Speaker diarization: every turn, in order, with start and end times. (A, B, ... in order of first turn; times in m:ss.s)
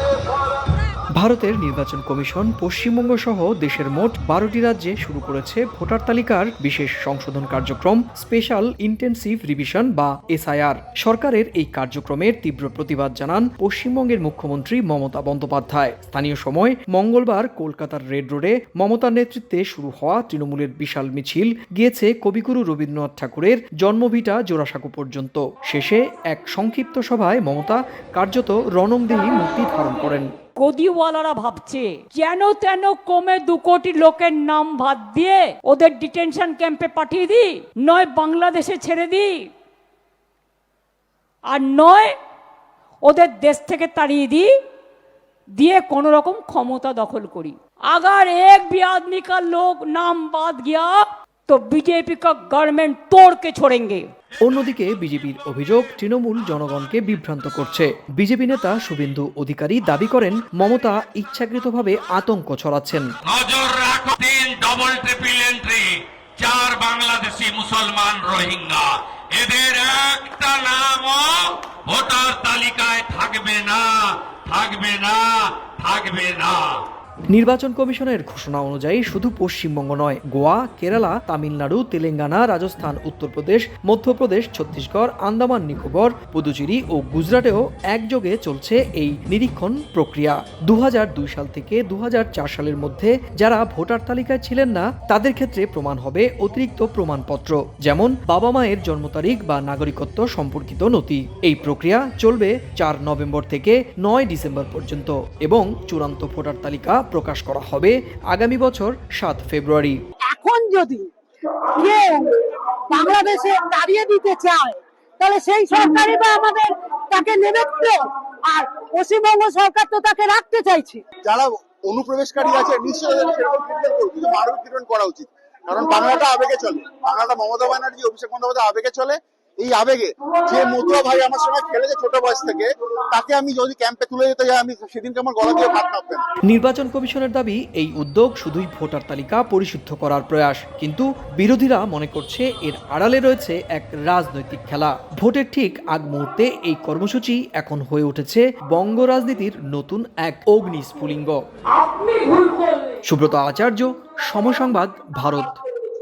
0:01.2-0:30.3 A
0:30.6-0:39.5 B
0:41.5-0:42.1 B
0:43.0-0:44.5 B
0:45.6-0:54.1 B
0:54.4-1:03.1 A
1:03.2-1:16.8 C
1:17.3-1:50.0 A
1:50.3-1:51.1 D
1:51.7-2:01.0 D
2:01.2-2:16.2 E
2:16.5-2:31.4 A
2:31.7-2:33.0 B
2:33.1-2:35.6 A